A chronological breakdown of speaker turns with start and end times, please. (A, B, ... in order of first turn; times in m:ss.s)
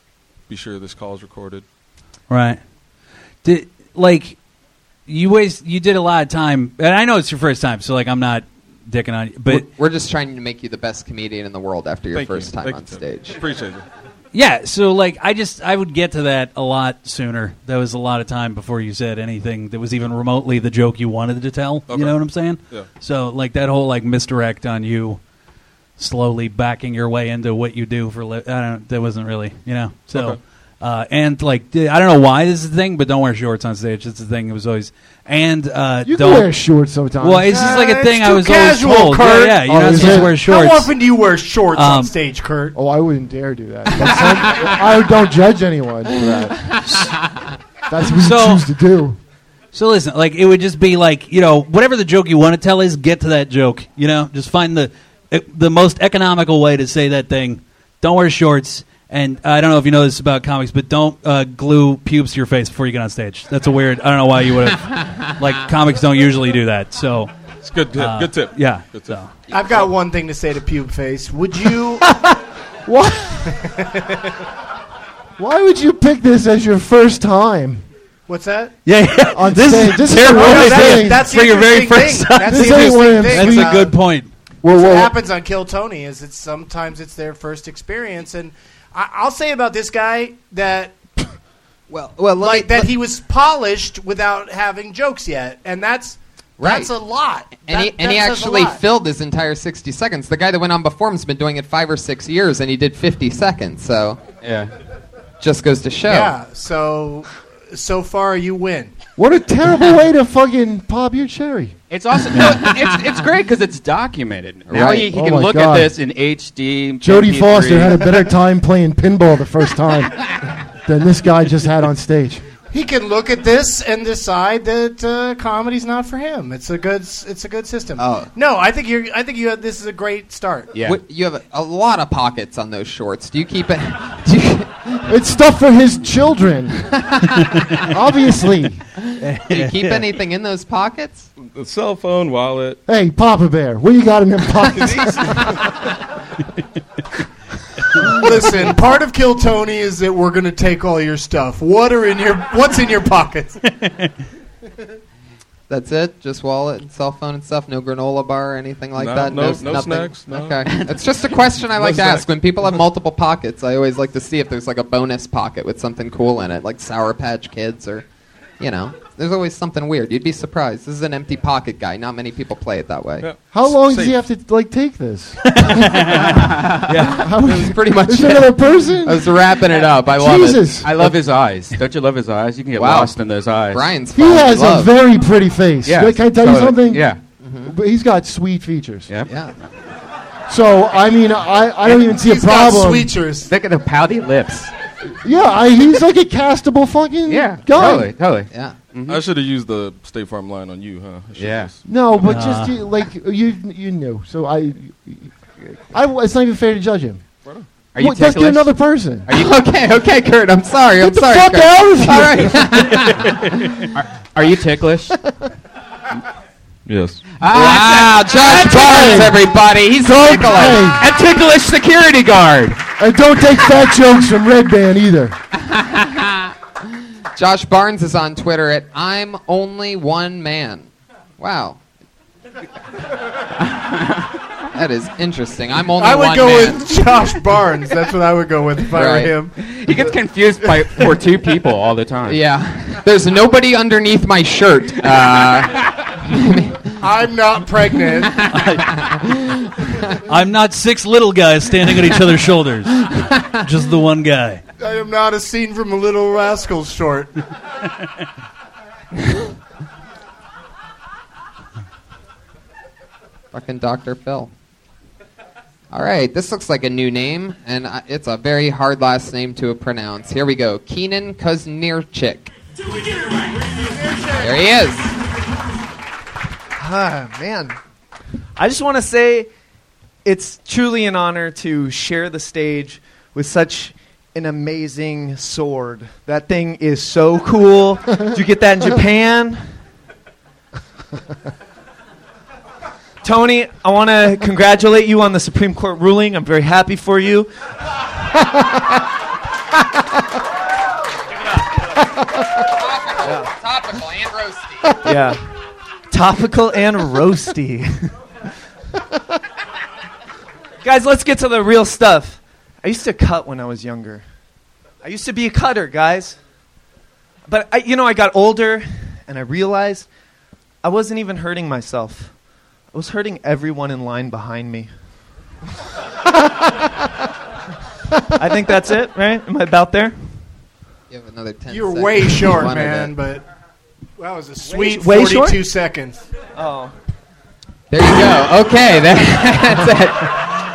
0:00.5-0:01.6 A
0:02.3-0:02.6 B
0:03.4-0:04.4 B
0:05.1-0:09.7 B
0:09.5-0:13.4 C
0:12.1-0:13.8 A
0:14.3-0:25.2 B
0:21.9-0:22.9 A
0:26.0-0:36.5 B
0:30.1-0:30.4 A
0:36.0-0:37.6 D
0:37.2-0:40.9 B
0:37.5-0:42.8 E
0:39.6-0:40.4 D
0:41.7-0:42.1 B
0:42.7-0:46.8 D
0:44.0-0:44.7 C
0:46.9-0:47.1 B
0:47.9-0:49.2 D
0:48.1-0:48.6 B
0:49.7-1:07.3 B
1:07.6-1:09.9 A
1:07.9-1:09.4 B
1:09.5-1:12.1 E
1:12.0-1:13.5 D
1:13.6-1:14.2 E
1:15.4-1:17.9 D
1:18.3-1:18.8 E
1:18.8-1:24.3 B
1:19.3-1:21.3 D
1:20.1-1:24.0 E
1:22.4-1:23.9 D
1:24.6-1:25.1 D
1:24.6-1:31.0 E
1:31.9-1:32.9 C
1:32.4-1:38.8 E
1:36.6-1:36.9 C
1:37.7-1:44.2 C
1:44.4-1:44.7 F
1:45.4-1:46.4 C
1:46.1-1:48.9 E
1:49.2-1:51.7 D
1:51.9-1:58.1 F
1:54.7-1:55.1 C
1:54.7-1:55.9 D
1:57.0-2:02.5 D
2:02.7-2:10.7 E
2:08.0-2:08.3 C
2:10.7-2:11.0 F
2:10.8-2:15.1 C
2:15.1-2:16.9 D
2:17.0-2:17.2 C
2:17.9-2:18.8 D
2:19.2-2:21.3 C
2:19.2-2:20.1 B
2:21.4-2:22.8 A
2:22.9-2:25.6 D
2:24.8-2:25.6 A
2:28.1-2:33.6 E
2:33.8-2:34.1 B
2:35.7-2:48.0 C
2:38.9-2:40.6 A
2:41.8-2:42.2 A
2:48.6-2:53.3 C
2:53.2-2:54.1 A
2:53.5-2:56.4 D
2:56.4-3:01.0 C
2:56.9-2:57.2 G
2:57.0-2:59.3 D
3:00.1-3:01.1 D
3:00.8-3:03.8 F
3:02.8-3:03.1 C
3:03.7-3:04.9 C
3:04.2-3:07.1 D
3:05.8-3:07.2 F
3:07.4-3:07.7 C
3:07.6-3:09.1 D
3:09.3-3:09.6 C
3:10.5-3:13.2 D
3:11.8-3:13.5 E
3:13.5-3:14.7 F
3:15.2-3:18.1 D
3:17.2-3:19.2 F
3:19.1-3:21.8 A
3:21.4-3:21.7 F
3:21.9-3:25.3 D
3:22.2-3:22.8 B
3:25.9-3:27.2 D
3:27.9-3:28.7 F
3:28.0-3:29.3 D
3:29.2-3:29.6 F
3:29.3-3:33.7 C
3:31.0-3:33.1 D
3:33.9-3:35.2 F
3:36.9-3:37.2 A
3:37.4-3:39.3 F
3:37.4-3:40.9 C
3:38.5-3:39.4 D
3:40.3-3:42.8 F
3:40.4-3:41.1 D
3:43.0-3:45.4 D
3:45.6-3:46.5 C
3:47.4-3:51.8 C
3:54.7-3:57.2 C
3:56.0-3:59.6 E
3:58.9-3:59.4 C
3:59.6-4:02.4 F
4:02.2-4:07.0 C
4:07.0-4:08.4 E
4:08.1-4:10.2 C
4:08.5-4:08.9 B
4:10.2-4:13.0 B
4:13.6-4:14.6 B
4:14.8-4:17.3 E
4:23.5-4:24.5 C
4:25.9-4:32.5 C
4:34.0-4:34.4 E
4:34.3-4:35.2 C
4:36.8-4:37.8 G
4:38.6-4:39.5 G
4:40.2-4:49.6 G
4:53.2-4:57.5 G
5:02.7-5:05.0 C
5:05.0-5:05.4 G
5:06.1-5:08.1 G
5:10.8-5:14.2 G
5:15.0-5:16.4 G
5:17.5-5:20.1 G
5:20.8-5:22.3 G
5:22.9-5:24.9 G
5:28.4-5:30.2 G
5:31.1-5:33.1 C
5:31.7-5:33.4 E
5:34.2-5:36.2 E
5:34.6-5:35.6 G
5:36.6-5:36.9 G
5:37.9-5:40.6 C